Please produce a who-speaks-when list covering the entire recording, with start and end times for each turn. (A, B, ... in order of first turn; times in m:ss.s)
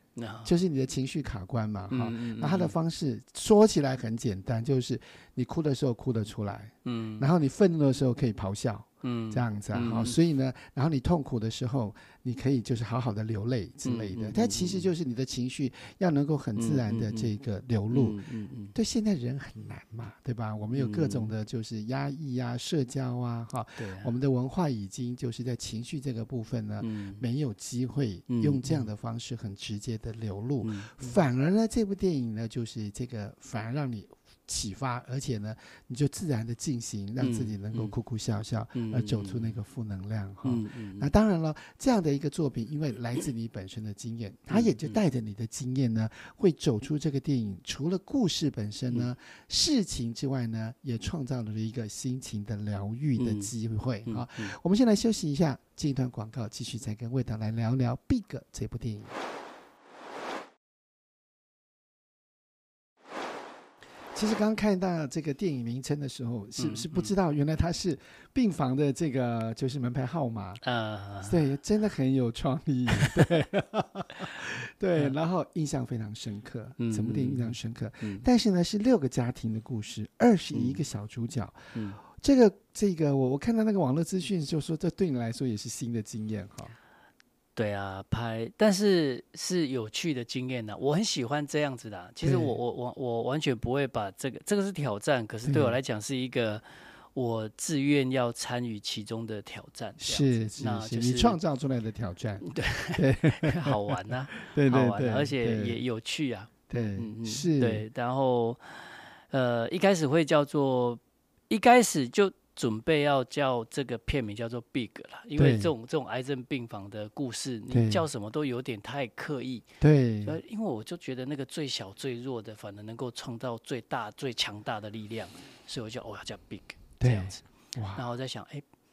0:00.2-0:00.5 A
0:00.4-0:18.2 B
0:01.9-0:02.8 A
0:06.8-0:07.3 A
0:09.0-0:10.2 A
0:13.8-0:14.9 A
0:16.6-0:17.4 A
0:17.9-0:18.7 A
0:18.7-0:59.2 B
0:20.7-0:21.3 A
0:23.8-0:24.1 A
0:26.8-0:27.3 A
0:28.3-0:28.9 A
0:30.6-0:31.2 A
0:37.2-0:38.0 A
0:38.7-0:39.6 A
0:40.4-0:41.1 A
0:44.5-0:45.0 A
0:53.2-0:53.5 A
0:54.0-0:54.6 A
1:04.1-1:10.6 B
1:06.6-1:07.1 A
1:10.6-1:11.4 A
1:11.2-1:26.8 B
1:13.0-1:13.3 A
1:16.8-1:18.2 A
1:20.5-1:20.8 A
1:27.6-1:41.4 A
1:32.2-1:32.6 B
1:35.4-1:35.8 B
1:40.0-1:45.8 B
1:42.4-1:59.7 A
1:46.7-1:47.8 B
1:55.4-1:55.7 B
1:57.7-1:58.1 B
1:59.8-2:00.4 B
2:00.2-2:08.6 A
2:07.0-2:08.0 B